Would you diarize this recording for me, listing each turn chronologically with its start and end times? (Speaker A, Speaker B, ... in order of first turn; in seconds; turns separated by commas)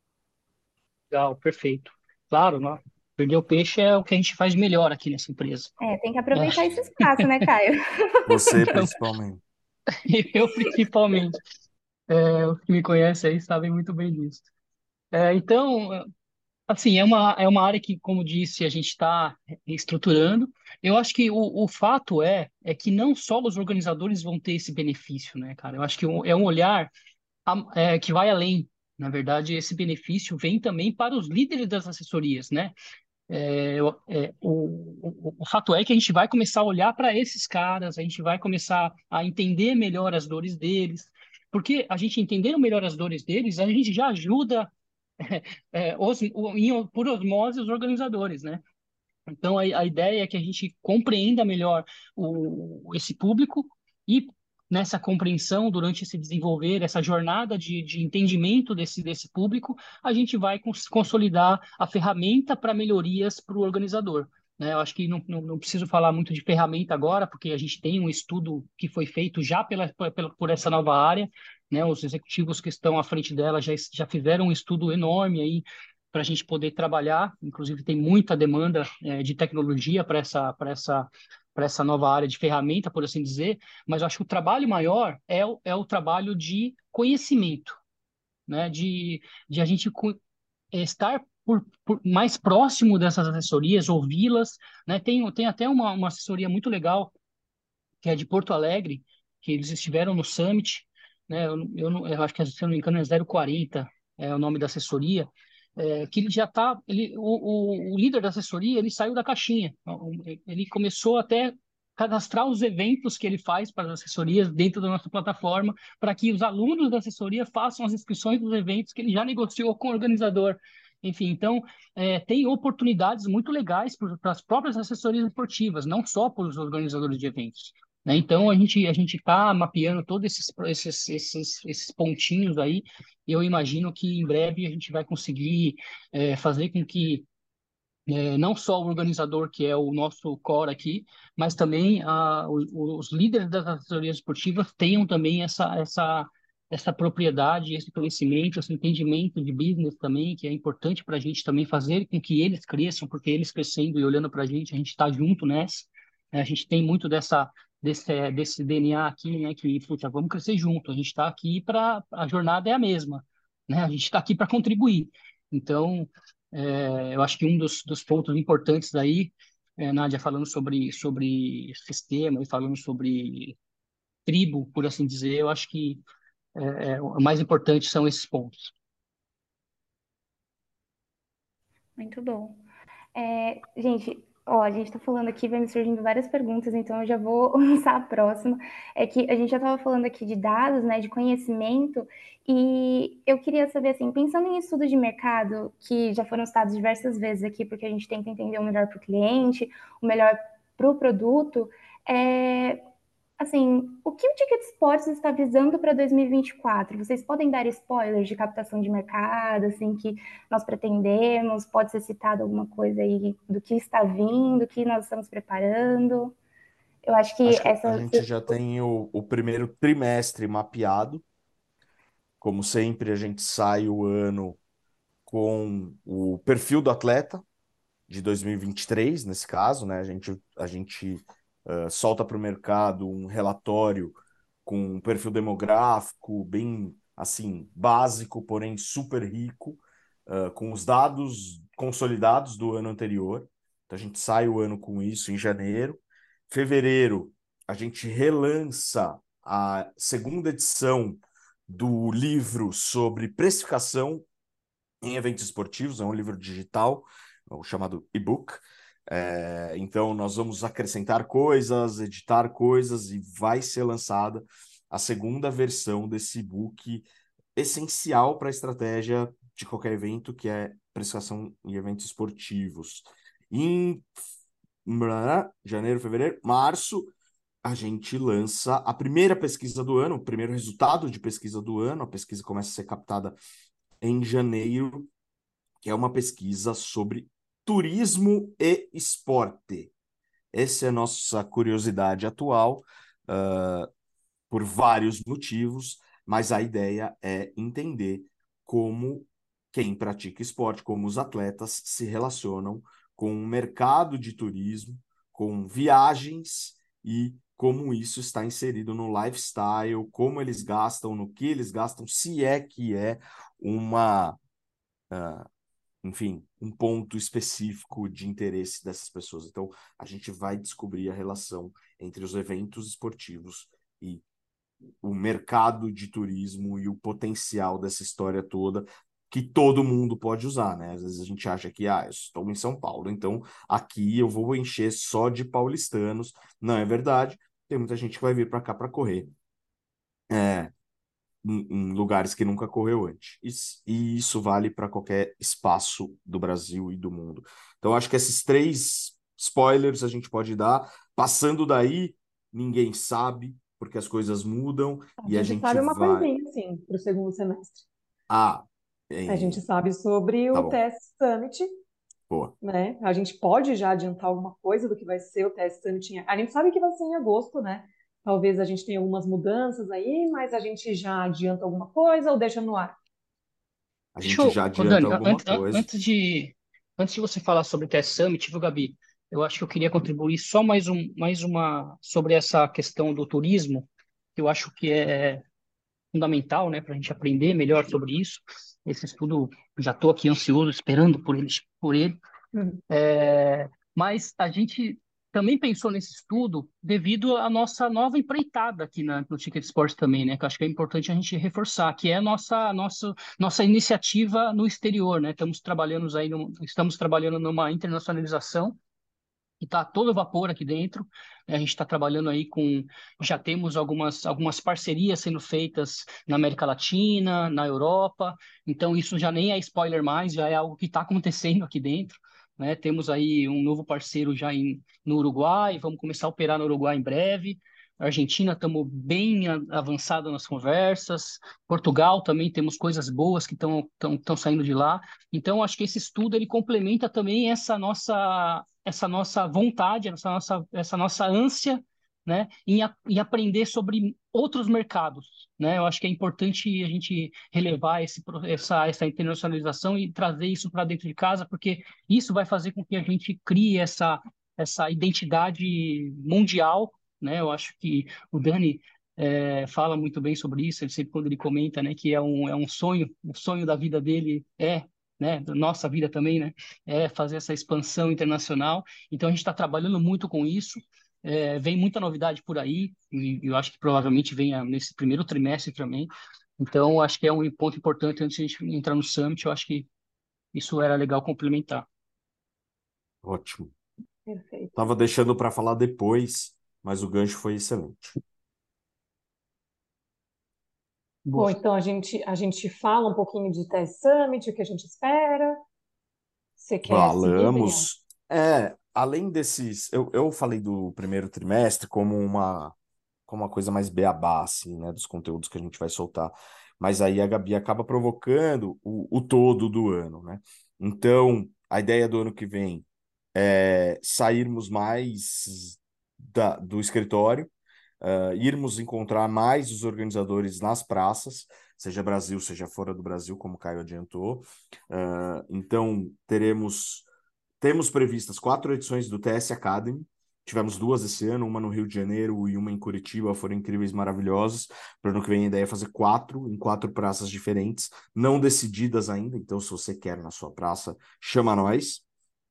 Speaker A: 1.1-5.7, Speaker B: 5.8-8.6, Speaker A: 6.3-7.4, Speaker C: 8.3-9.4, Speaker A: 10.1-11.4, Speaker A: 12.1-14.5, Speaker A: 15.1-16.1, Speaker A: 16.7-26.9, Speaker A: 27.5-32.8, Speaker A: 33.3-48.6, Speaker A: 49.3-87.8, Speaker A: 88.5-90.2, Speaker A: 90.7-97.1, Speaker A: 98.0-137.3, Speaker A: 138.1-173.6, Speaker A: 174.3-176.0, Speaker A: 176.6-178.7, Speaker B: 182.0-182.6, Speaker B: 183.2-202.8, Speaker B: 203.4-216.3, Speaker B: 217.1-218.4, Speaker C: 217.4-221.2, Speaker C: 222.4-224.6, Speaker C: 225.3-227.4, Speaker C: 228.1-254.2, Speaker C: 255.0-274.1, Speaker C: 274.9-277.1, Speaker C: 277.6-283.4, Speaker C: 284.0-285.1, Speaker C: 285.8-289.9, Speaker C: 290.5-293.9, Speaker C: 294.5-314.4, Speaker C: 315.1-315.5, Speaker C: 316.0-324.2, Speaker C: 325.0-339.3, Speaker C: 340.3-340.7, Speaker C: 341.4-356.3, Speaker D: 355.2-357.9, Speaker C: 358.3-359.6, Speaker D: 359.3-361.7, Speaker C: 360.5-360.8, Speaker D: 362.6-373.0, Speaker C: 374.1-375.9, Speaker A: 374.2-385.5, Speaker A: 386.1-392.2, Speaker D: 392.5-392.8, Speaker A: 392.9-408.8, Speaker A: 409.6-479.9, Speaker A: 480.5-481.9, Speaker C: 483.2-483.7, Speaker D: 484.3-484.8, Speaker C: 484.8-488.2, Speaker A: 491.2-491.6, Speaker D: 491.3-495.6, Speaker D: 496.6-497.9, Speaker C: 496.9-502.8, Speaker C: 503.3-527.1, Speaker C: 527.6-542.0